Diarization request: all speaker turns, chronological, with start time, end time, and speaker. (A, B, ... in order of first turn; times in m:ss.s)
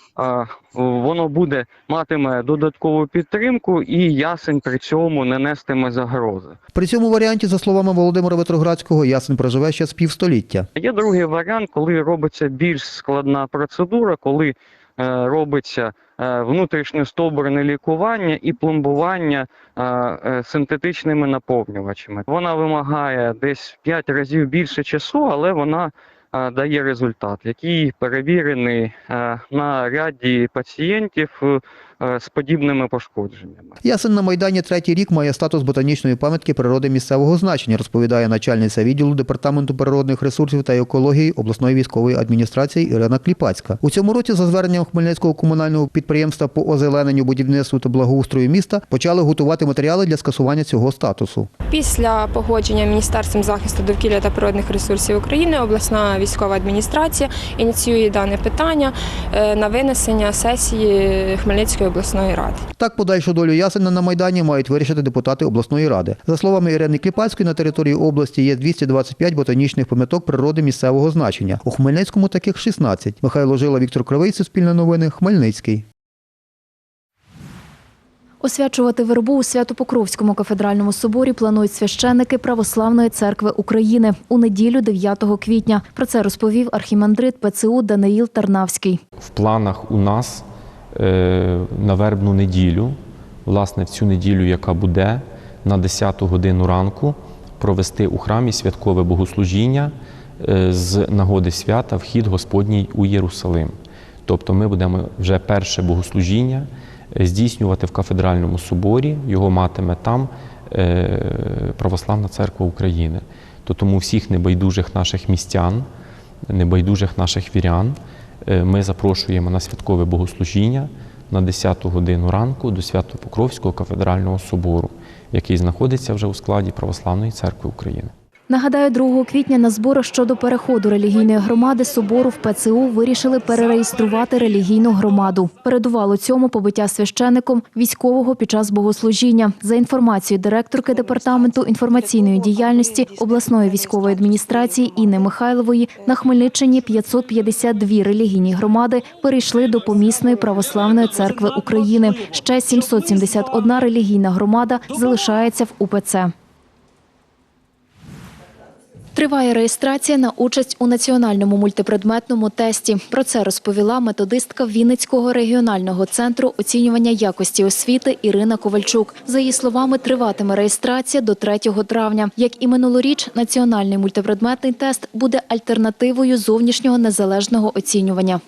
0:00.2-0:06.6 A
0:06.7-0:10.7 B
0:10.8-0:33.8 A
0:33.8-0:51.5 B
0:51.7-1:02.6 C
1:02.8-1:15.8 B
1:18.4-1:29.0 D
1:29.2-1:55.9 E
1:56.5-2:08.1 E
2:08.5-2:36.3 D
2:39.2-2:58.4 D